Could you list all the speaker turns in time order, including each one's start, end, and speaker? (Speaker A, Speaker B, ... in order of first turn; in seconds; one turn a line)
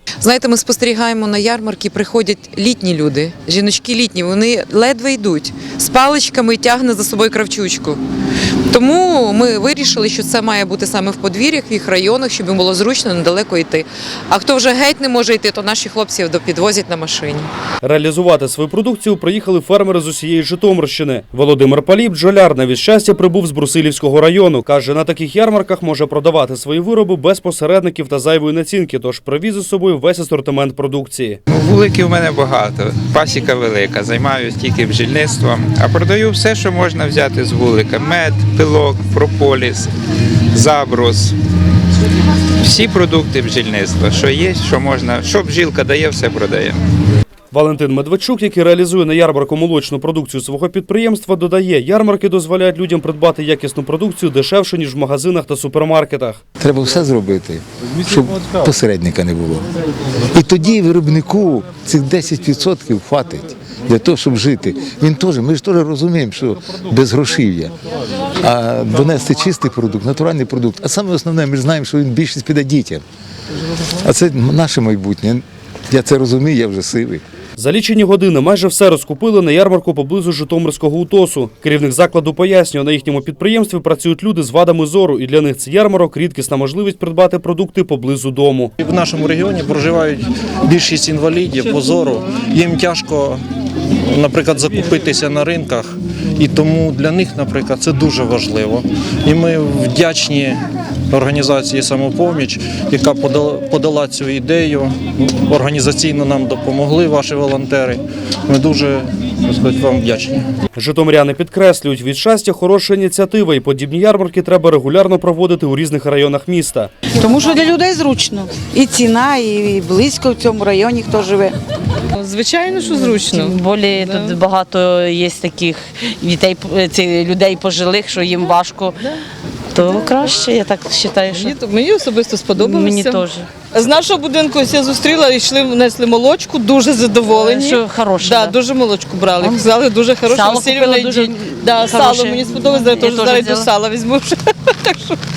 Speaker A: 0.2-8.0
Speaker A: 8.7-17.5
Speaker B: 17.8-31.4
Speaker C: 31.5-39.9
Speaker C: 40.5-41.3
Speaker C: 42.6-46.8
Speaker B: 47.5-56.4
Speaker D: 56.6-59.7
Speaker D: 60.3-67.7
Speaker D: 68.4-73.0
Speaker D: 74.0-77.2
Speaker B: 77.6-88.7
Speaker E: 88.8-93.4
Speaker E: 94.0-110.4
Speaker B: 110.8-116.9
Speaker F: 117.2-121.5
Speaker G: 122.2-124.4
Speaker H: 123.3-129.0
Speaker H: 129.8-131.5
Speaker G: 131.3-145.2
Speaker H: 132.6-133.5
Speaker H: 137.3-138.6
Speaker H: 140.2-143.7